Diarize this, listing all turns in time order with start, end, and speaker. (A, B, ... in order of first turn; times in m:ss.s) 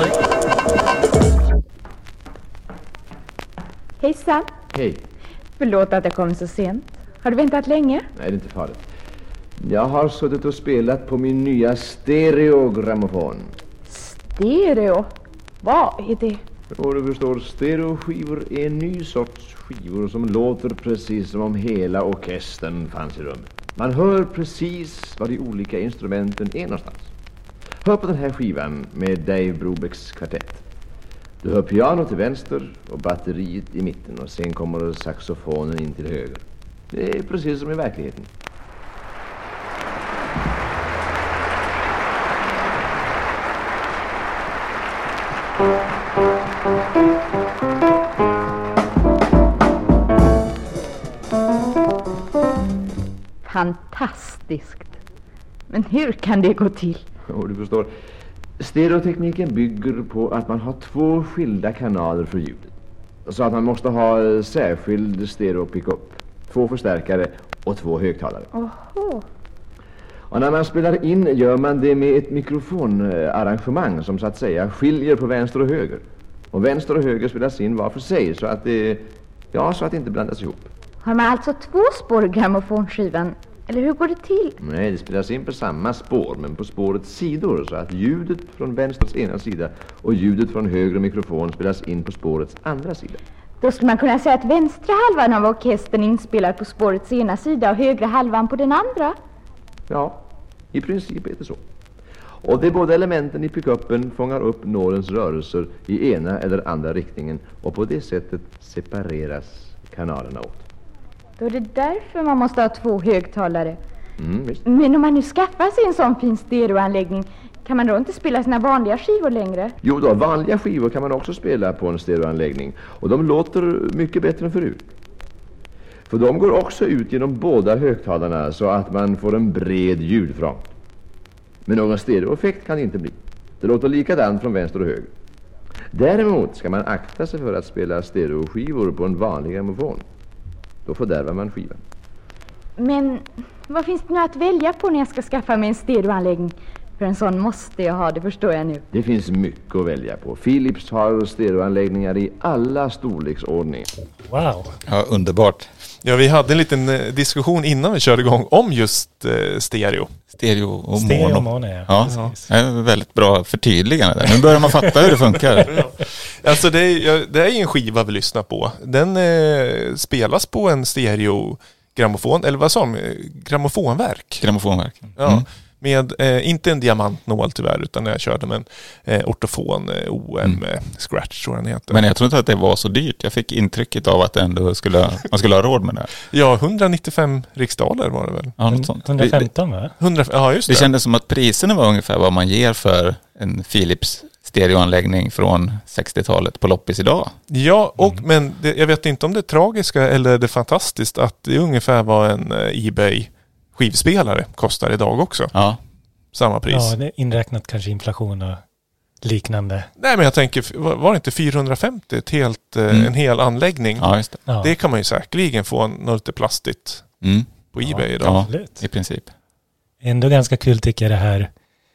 0:04.0-0:04.5 A
0:04.7-0:05.0 B
0:05.6-0:08.1 A
0:08.1-0:08.8 B
0:09.6-0:13.5 B
0:13.9-0:15.1 A
0:15.6-0:16.4 A
0:16.7-0:27.1 B
0:27.8-0:30.6 B
0:31.4-0:38.3 B
0:53.4-0:54.9 A
0:55.7-0:57.0 A
0:57.3-0:57.9 B
0:58.6-1:02.7 B
1:03.2-1:08.5 B
1:08.5-1:09.2 A
1:10.3-1:20.7 B
1:21.0-1:24.6 A
1:24.6-1:33.2 B
1:33.6-1:39.2 A
1:39.9-1:40.2 B
1:40.7-1:41.6 B
1:42.4-1:50.6 B
1:51.4-1:53.8 A
1:54.2-1:54.6 B
1:54.6-1:59.7 A
1:59.8-2:04.9 B
2:06.1-2:10.7 B
2:11.6-2:15.1 B
2:15.9-2:20.0 B
2:20.8-2:21.8 B
2:22.8-2:28.8 A
2:28.9-2:33.9 B
2:34.2-2:34.8 C
2:34.9-2:35.7 D
2:36.0-2:40.1 E
2:40.3-2:45.7 D
2:40.9-2:42.5 C
2:42.1-2:42.3 E
2:45.6-2:54.4 E
2:54.4-2:55.4 D
2:55.2-3:02.0 E
3:01.9-3:06.1 D
3:06.3-3:08.5 E
3:08.6-3:09.5 D
3:08.6-3:09.9 C
3:10.0-3:10.9 E
3:10.7-3:17.3 D
3:17.5-3:25.5 E
3:25.5-3:25.8 D
3:26.3-3:26.9 E
3:26.7-3:28.6 C
3:29.2-3:29.9 C
3:30.0-3:34.1 E
3:34.0-3:34.4 D
3:34.5-3:34.7 C
3:34.6-3:37.1 E
3:37.2-3:37.5 D
3:37.7-3:38.4 E
3:37.8-3:38.8 C
3:38.2-3:39.3 D
3:40.0-3:41.5 C